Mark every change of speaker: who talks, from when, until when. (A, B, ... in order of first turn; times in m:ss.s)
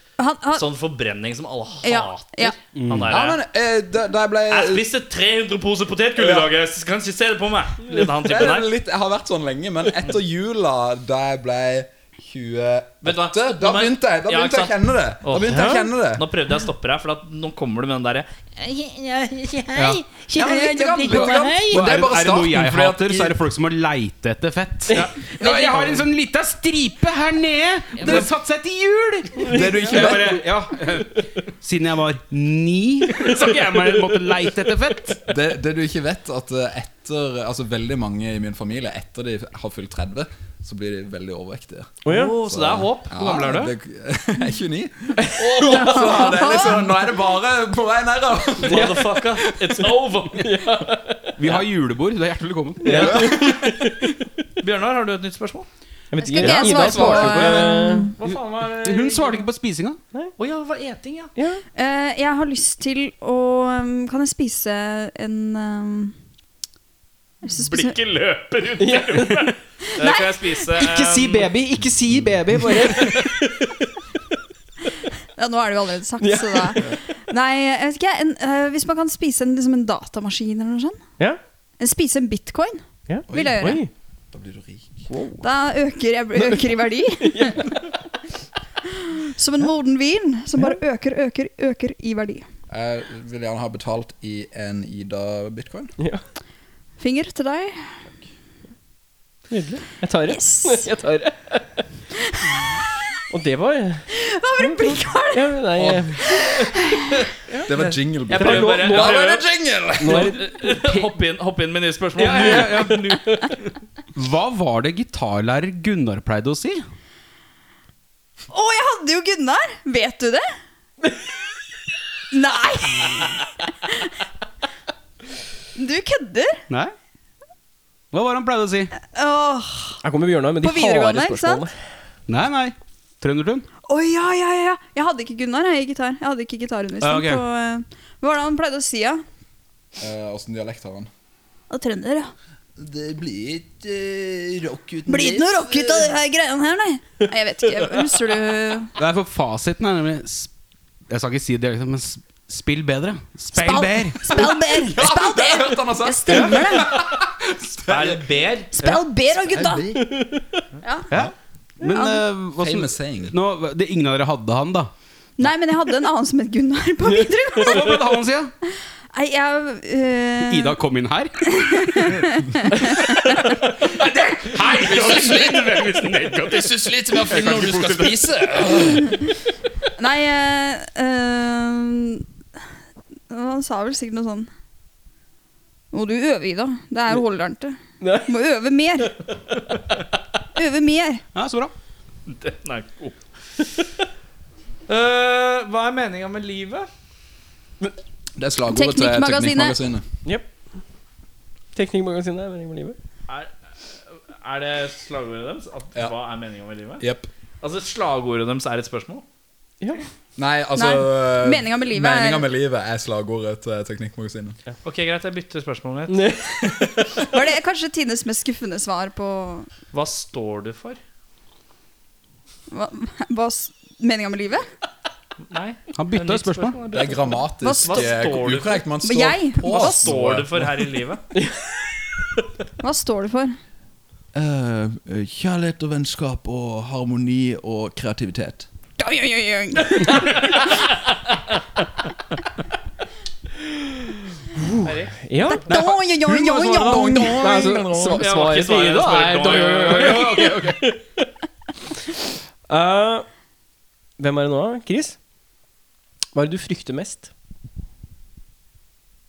0:00.2-0:00.6 A
0:00.6-0:03.4 B
0:01.8-0:02.6 A
0:02.7-0:03.1 C
0:03.0-0:04.8 D
0:04.5-0:08.7 B
0:06.2-0:06.5 D
0:07.9-0:16.2 D
0:13.0-0:19.9 B
0:15.4-0:15.8 E
0:19.7-0:20.0 C
0:19.8-0:23.4 D
0:20.7-0:21.4 B
0:21.0-0:35.2 C
0:24.9-0:26.0 B
0:28.0-0:28.3 B
0:29.4-0:30.1 E
0:29.5-0:30.4 D
0:33.1-0:34.3 B
0:35.3-0:41.9 D
0:42.0-0:42.4 E
0:42.1-0:43.7 B
0:42.4-0:49.2 D
0:45.2-0:46.0 E
0:45.6-0:47.1 A
0:48.6-0:50.6 B
0:48.6-0:49.6 E
0:50.3-0:51.4 E
0:51.4-0:53.2 C
0:52.8-0:54.2 E
0:52.8-0:53.4 B
0:53.1-0:53.7 D
0:54.6-0:55.7 B
0:56.1-0:58.1 E
0:56.2-0:58.1 A
0:56.4-0:58.0 D
0:56.5-1:00.0 C
0:58.2-0:59.4 B
1:00.4-1:01.3 B
1:01.4-1:01.6 E
1:01.8-1:06.1 A
1:07.4-1:07.9 A
1:07.5-1:11.5 B
1:08.8-1:09.5 E
1:09.9-1:10.5 A
1:10.7-1:13.9 E
1:15.4-1:21.0 A
1:16.2-1:17.1 E
1:21.8-1:23.8 A
1:23.1-1:23.9 E
1:23.3-1:23.7 D
1:24.3-1:25.1 D
1:25.1-1:25.4 E
1:25.4-1:27.6 A
1:27.2-1:27.7 E
1:29.0-1:32.4 A
1:32.7-1:35.9 D
1:37.0-1:37.8 A
1:39.5-1:41.8 E
1:40.3-1:40.9 A
1:42.2-1:42.7 A
1:43.3-1:46.6 E
1:44.1-1:45.6 A
1:45.8-1:46.4 D
1:46.2-1:47.3 A
1:47.6-1:50.4 D
1:47.7-1:49.5 B
1:48.3-1:49.2 E
1:50.0-1:51.1 E
1:50.0-1:53.2 B
1:52.2-1:53.5 E
1:52.2-1:53.1 C
1:54.1-1:56.8 C
1:58.5-2:00.4 A
2:02.3-2:04.1 A
2:05.7-2:06.6 A
2:08.1-2:08.9 C
2:09.1-2:10.0 A
2:10.0-2:11.7 E
2:10.6-2:11.6 A
2:12.3-2:13.6 C
2:13.9-2:19.2 A
2:17.0-2:17.4 C
2:20.0-2:21.1 D
2:21.7-2:22.3 A
2:22.8-2:26.1 D
2:25.0-2:28.9 A
2:28.9-2:30.5 C
2:31.1-2:34.5 C
2:33.5-2:37.0 A
2:34.3-2:38.2 D
2:36.3-2:36.6 E
2:37.8-2:39.0 B
2:38.7-2:39.9 A
2:39.3-2:40.1 D
2:40.0-2:41.3 E
2:40.8-2:41.1 A
2:41.1-2:44.9 C
2:41.9-2:42.2 A
2:42.6-2:43.3 D
2:45.4-2:48.0 A
2:47.1-2:47.9 E
2:47.6-2:48.5 C
2:49.1-2:50.8 A
2:50.5-2:52.3 C
2:51.4-2:53.6 A
2:52.8-2:58.8 C
2:54.0-2:59.1 D
3:00.0-3:02.2 A
3:03.3-3:04.5 A
3:05.9-3:09.2 A
3:08.0-3:08.3 E
3:10.6-3:11.2 A
3:11.3-3:11.7 C
3:12.2-3:13.6 B
3:14.9-3:16.9 B
3:18.4-3:20.0 D
3:18.7-3:19.8 A
3:21.7-3:23.0 E
3:24.3-3:27.0 B
3:27.0-3:27.3 D
3:27.6-3:29.2 B
3:30.4-3:34.6 D
3:30.8-3:32.5 A
3:34.8-3:36.4 B
3:36.1-3:36.8 E
3:37.2-3:39.7 A
3:39.9-3:41.0 B
3:42.7-3:44.6 A
3:45.5-3:48.8 B
3:45.9-3:46.8 C
3:46.9-3:50.8 D
3:47.6-3:48.2 A
3:49.0-3:50.2 A
3:49.6-3:51.2 B
3:52.8-3:53.5 A
3:54.3-3:58.7 D
3:59.0-4:00.8 A
4:00.2-4:00.7 B
4:04.5-4:05.6 E
4:04.8-4:05.2 B
4:05.4-4:07.6 A
4:05.7-4:08.0 C
4:06.8-4:08.2 D
4:07.1-4:11.2 E
4:08.0-4:10.4 B
4:09.5-4:10.8 C
4:12.7-4:13.3 E
4:14.2-4:15.2 E
4:16.3-4:17.3 E